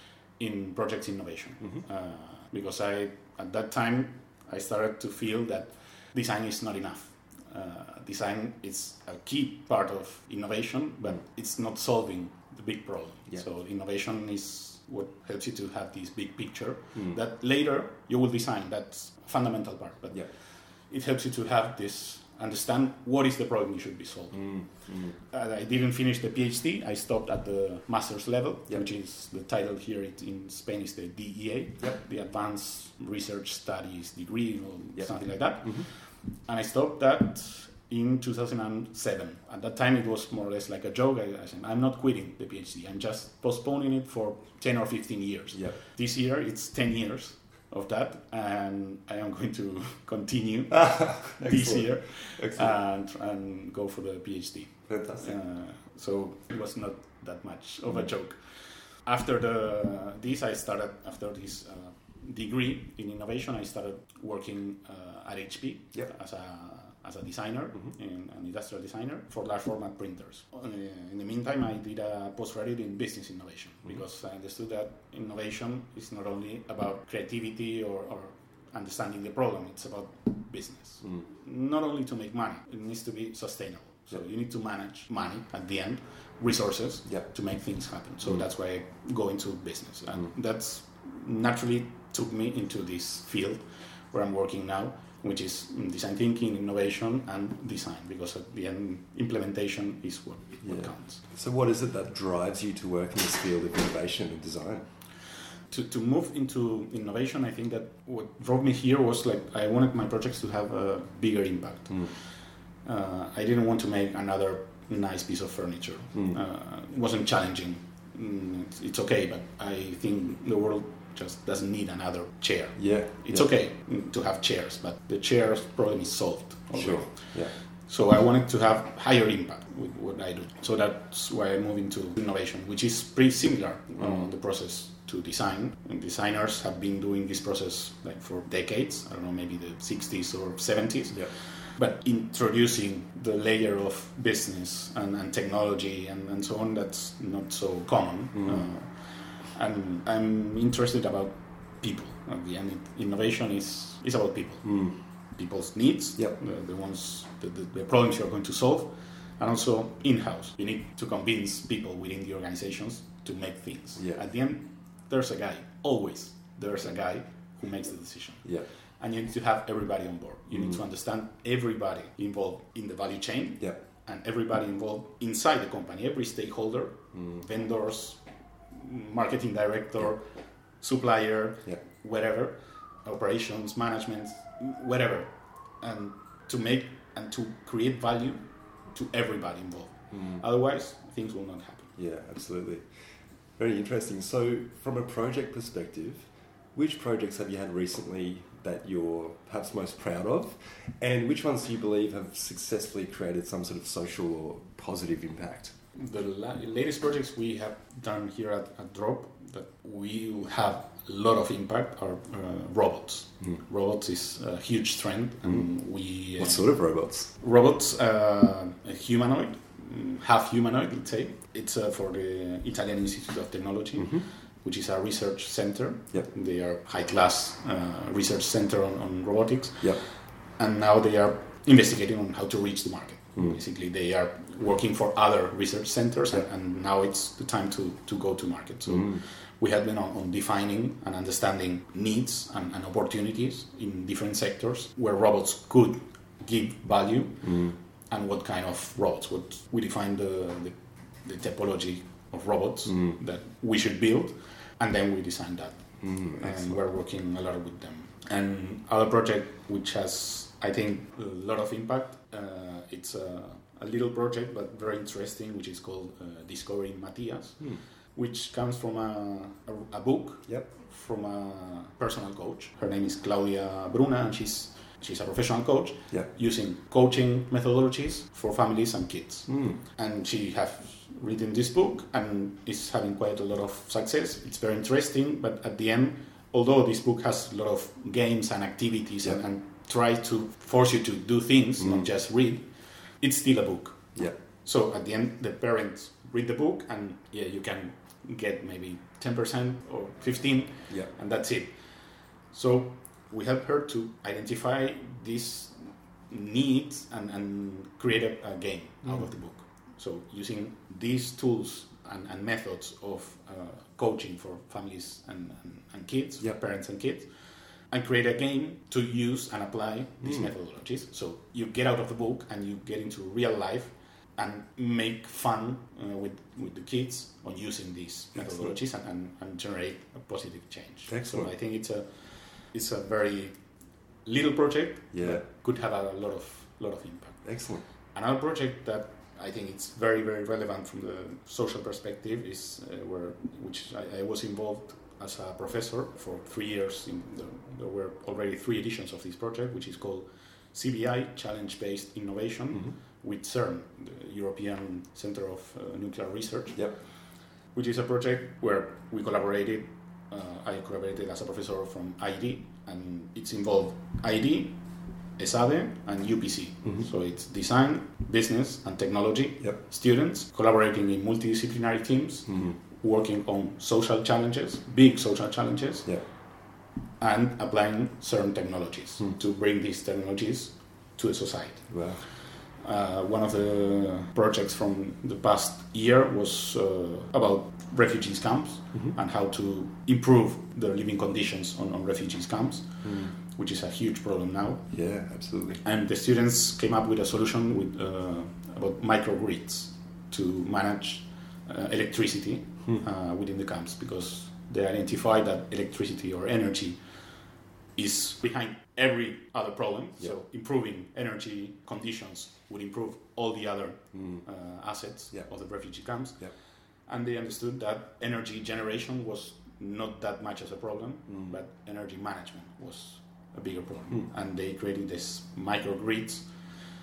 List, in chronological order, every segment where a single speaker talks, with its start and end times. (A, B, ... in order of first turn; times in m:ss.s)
0:00.4-1:41.2 A
0:16.9-0:17.2 B
0:24.3-0:25.2 B
0:35.0-0:35.9 B
0:45.5-0:45.8 B
0:50.7-0:52.8 B
0:54.9-0:55.4 B
1:40.6-1:44.8 B
1:45.7-3:11.9 A
1:51.9-1:52.1 B
1:56.1-1:56.4 B
2:02.8-2:03.5 B
2:06.7-2:07.5 B
2:14.0-2:14.3 B
2:28.3-2:28.6 B
2:34.6-2:35.0 B
2:50.5-2:50.8 B
2:57.1-2:57.4 B
3:10.1-3:10.4 B
3:12.0-3:25.7 B
3:25.9-5:17.3 A
3:35.4-3:37.3 B
3:44.0-3:44.3 B
3:58.9-3:59.2 B
4:07.4-4:07.8 B
4:12.9-4:13.2 B
4:16.0-4:16.8 B
4:39.5-4:39.8 B
4:51.8-4:52.1 B
5:09.0-5:09.3 B
5:17.8-5:33.6 A
5:20.2-5:20.5 B
5:28.4-5:28.7 B
5:31.1-5:31.5 B
5:34.2-5:37.4 A
5:35.1-5:35.4 B
5:37.4-5:37.8 B
5:38.1-5:57.2 A
5:56.7-5:57.0 B
5:57.7-6:04.8 A
6:05.4-6:16.2 A
6:12.5-6:12.8 B
6:17.2-6:34.9 A
6:21.9-6:22.2 B
6:33.0-6:33.3 B
6:34.9-6:35.8 B
6:35.8-6:47.0 A
6:48.0-6:56.5 A
6:54.1-6:54.4 B
6:57.1-7:06.7 A